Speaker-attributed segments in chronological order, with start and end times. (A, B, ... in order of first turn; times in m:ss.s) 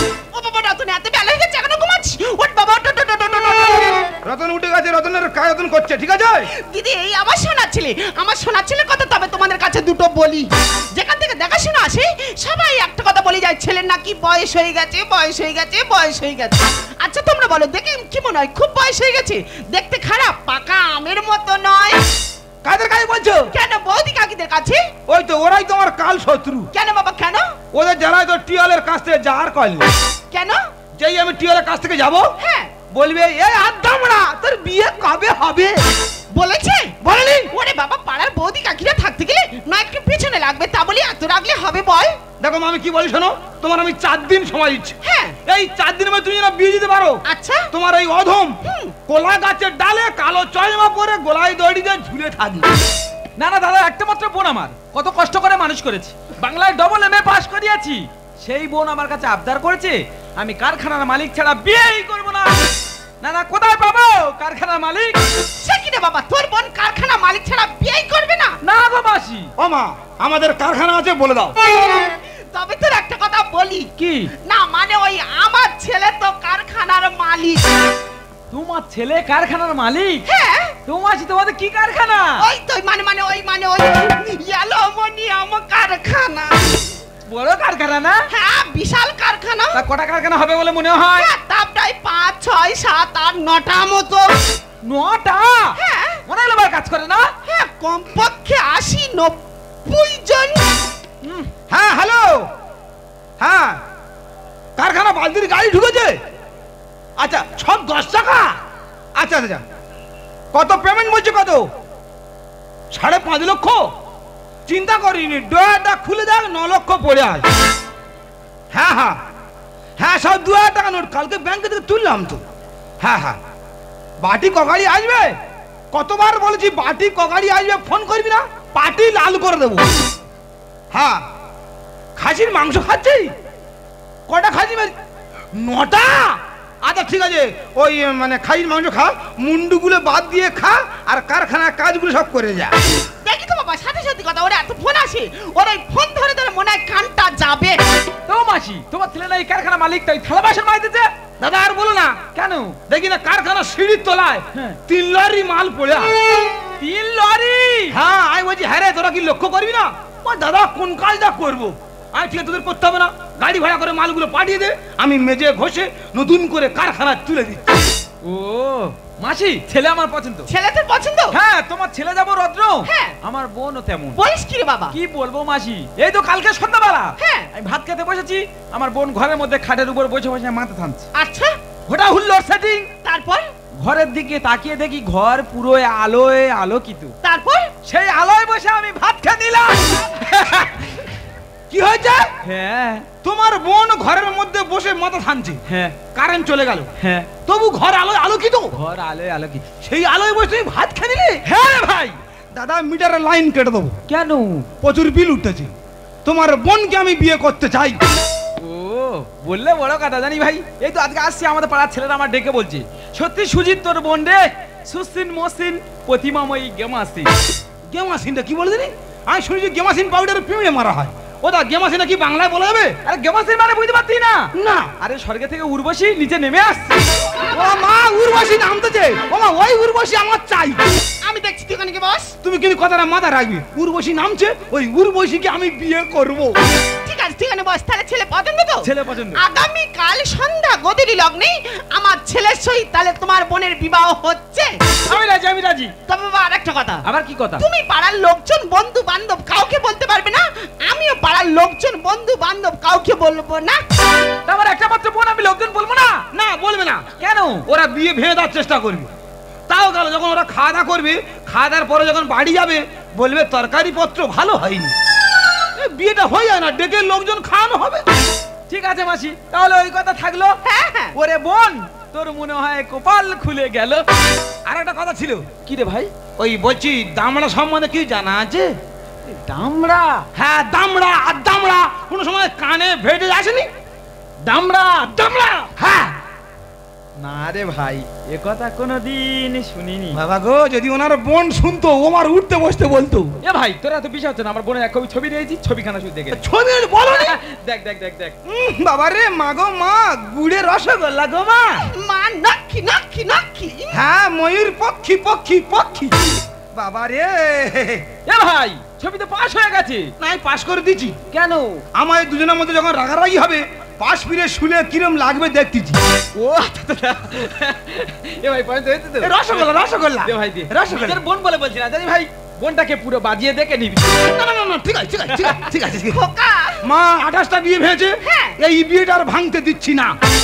0:00.3-0:04.1 A
0:04.2-0:06.5 B
0:06.6-0:22.0 A
0:22.6-0:23.5 B
0:23.5-0:24.9 A
0:25.1-0:26.7 B
0:26.7-0:27.6 A
0:27.7-0:29.9 B
0:30.3-0:30.6 A
0:31.0-0:32.3 B
0:32.4-0:32.7 A
0:32.9-0:35.8 B
0:36.3-0:37.0 A
0:37.0-0:37.5 B
0:37.5-0:42.2 A
0:42.4-0:47.2 B
0:45.0-0:45.4 A
0:47.3-0:47.7 A
0:47.7-0:48.6 B
0:48.6-0:48.9 A
0:49.1-0:52.7 B
0:53.4-1:02.6 C
1:03.2-1:05.2 C
1:05.6-1:08.6 A
1:08.6-1:09.5 C
1:09.6-1:11.6 B
1:11.9-1:13.9 A
1:14.0-1:14.3 C
1:14.4-1:17.7 A
1:18.5-1:20.3 C
1:20.3-1:20.8 A
1:20.9-1:22.4 C
1:22.4-1:26.8 A
1:27.3-1:28.3 C
1:28.3-1:29.8 A
1:29.7-1:31.3 C
1:31.2-1:34.3 A
1:34.8-1:37.3 C
1:35.8-1:36.2 A
1:37.4-1:40.7 A
1:41.2-1:41.5 C
1:41.7-1:42.5 B
1:43.4-1:43.8 B
1:44.8-1:46.2 B
1:47.2-1:48.5 B
1:49.2-1:49.6 B
1:50.5-1:51.7 B
1:52.9-1:53.8 B
1:54.7-1:57.4 B
1:58.7-1:59.2 B
2:00.0-2:02.4 B
2:03.0-2:03.4 B
2:04.2-2:05.4 B
2:05.9-2:09.9 B
2:10.9-2:11.2 B
2:12.2-2:13.3 B
2:14.3-2:14.9 B
2:15.6-2:22.7 B
2:23.2-2:27.8 A
2:28.3-2:31.1 C
2:31.4-2:32.3 B
2:32.4-2:32.8 C
2:32.9-2:36.1 B
2:34.5-2:34.8 C
2:36.8-2:38.0 C
2:37.9-2:47.8 B
2:48.2-2:50.5 C
2:50.5-2:51.4 A
2:51.3-2:54.2 C
2:52.8-2:53.2 A
2:54.2-2:55.0 A
2:54.9-3:01.1 C
2:57.2-2:57.5 A
3:01.2-3:01.6 A
3:01.9-3:02.9 C
3:03.0-3:03.5 A
3:03.8-3:07.2 C
3:07.2-3:07.7 A
3:07.8-3:11.0 C
3:11.7-3:12.3 B
3:12.4-3:13.1 C
3:13.2-3:15.6 B
3:15.7-3:16.0 C
3:16.1-3:16.9 B
3:17.0-3:17.3 C
3:17.5-3:18.8 B
3:18.7-3:19.6 C
3:19.8-3:21.4 B
3:21.4-3:22.2 C
3:22.5-3:24.0 B
3:24.1-3:24.7 C
3:24.8-3:25.7 B
3:26.2-3:28.0 B
3:28.6-3:37.3 C
3:37.9-3:43.0 B
3:43.0-3:47.1 C
3:44.6-3:44.9 B
3:47.3-3:47.8 A
3:47.5-3:50.8 B
3:51.2-3:52.4 A
3:52.4-3:56.6 B
3:57.0-4:05.0 A
3:58.8-3:59.4 C
4:05.1-4:05.9 C
4:06.1-4:07.0 A
4:07.0-4:07.7 C
4:07.6-4:13.8 A
4:14.5-4:16.2 C
4:16.3-4:17.1 B
4:17.2-4:17.6 C
4:17.7-4:19.1 B
4:19.7-4:24.9 B
4:25.8-4:28.0 B
4:28.7-4:30.6 C
4:30.6-4:31.1 A
4:31.2-4:34.0 C
4:34.7-4:35.5 B
4:35.6-4:36.1 C
4:36.4-4:38.7 B
4:39.2-4:40.2 C
4:40.4-4:43.7 B
4:44.4-4:45.7 C
4:45.8-4:46.1 B
4:47.2-4:50.2 C
4:50.1-4:53.4 B
4:53.4-4:56.4 C
4:56.3-4:57.4 B
4:57.1-4:58.4 C
4:58.5-5:01.9 B
5:01.9-5:04.0 A
5:03.9-5:06.1 B
5:06.7-5:08.1 B
5:08.3-5:10.1 C
5:10.2-5:11.2 B
5:11.3-5:11.8 C
5:12.0-5:16.0 B
5:16.4-5:19.6 C
5:19.2-5:21.2 B
5:20.2-5:24.2 C
5:24.1-5:26.2 B
5:25.3-5:25.6 C
5:26.1-5:26.9 A
5:26.8-5:30.2 B
5:28.2-5:28.6 A